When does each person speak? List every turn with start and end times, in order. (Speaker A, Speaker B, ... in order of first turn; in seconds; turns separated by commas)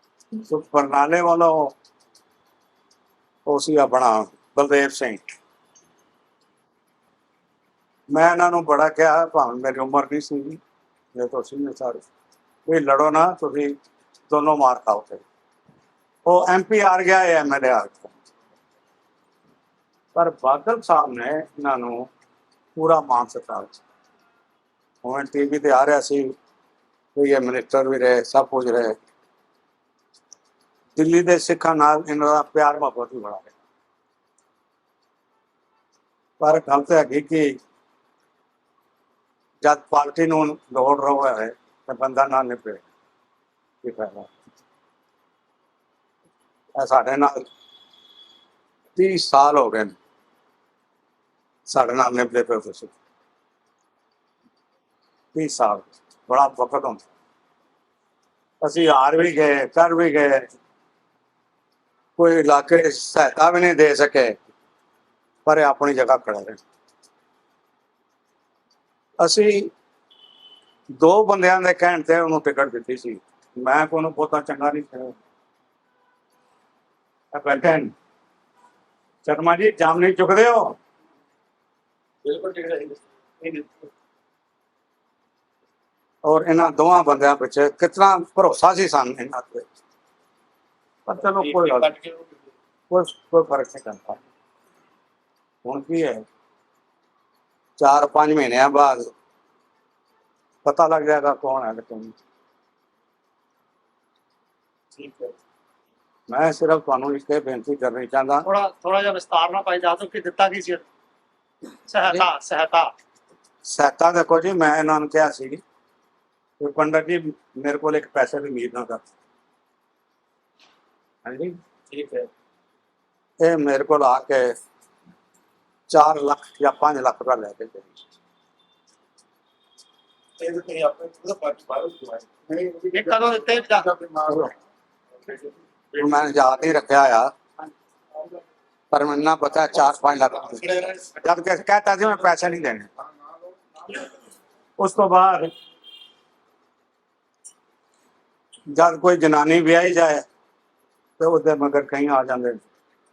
Speaker A: 0.4-1.7, Speaker A: 3.5-5.2, Speaker A: 8.1-10.6, Speaker A: 11.1-12.0, Speaker A: 12.7-13.8, Speaker A: 14.3-15.2, Speaker A: 16.2-18.1, Speaker A: 20.1-22.1, Speaker A: 22.8-23.8, Speaker A: 25.0-26.3, Speaker A: 27.1-29.0, Speaker A: 30.9-33.5, Speaker A: 36.4-37.6, Speaker A: 39.6-42.8, Speaker A: 43.8-44.3, Speaker A: 46.8-47.5, Speaker A: 49.0-50.0, Speaker A: 51.7-52.9, Speaker A: 55.3-57.0, Speaker A: 58.6-60.5, Speaker A: 62.2-64.4, Speaker A: 65.5-66.6, Speaker A: 69.2-69.7, Speaker A: 71.0-75.1, Speaker A: 77.3-77.9, Speaker A: 79.2-80.8, Speaker B: 82.2-83.6, Speaker A: 86.2-89.6, Speaker A: 91.1-91.9, Speaker B: 91.3-92.3, Speaker A: 92.9-94.2, Speaker A: 95.6-96.2, Speaker A: 97.8-99.1, Speaker A: 100.6-102.1, Speaker A: 106.3-108.5, Speaker C: 108.4-110.8, Speaker C: 111.9-112.9, Speaker A: 113.7-115.6, Speaker A: 116.6-119.0, Speaker A: 121.2-121.6, Speaker B: 121.9-122.3, Speaker A: 123.4-124.5, Speaker A: 125.9-127.9, Speaker B: 130.4-134.5, Speaker C: 132.9-133.9, Speaker A: 134.3-134.5, Speaker A: 135.9-137.3, Speaker A: 138.9-142.9, Speaker B: 140.6-141.0, Speaker A: 144.8-145.5, Speaker A: 148.7-150.2, Speaker A: 151.2-152.6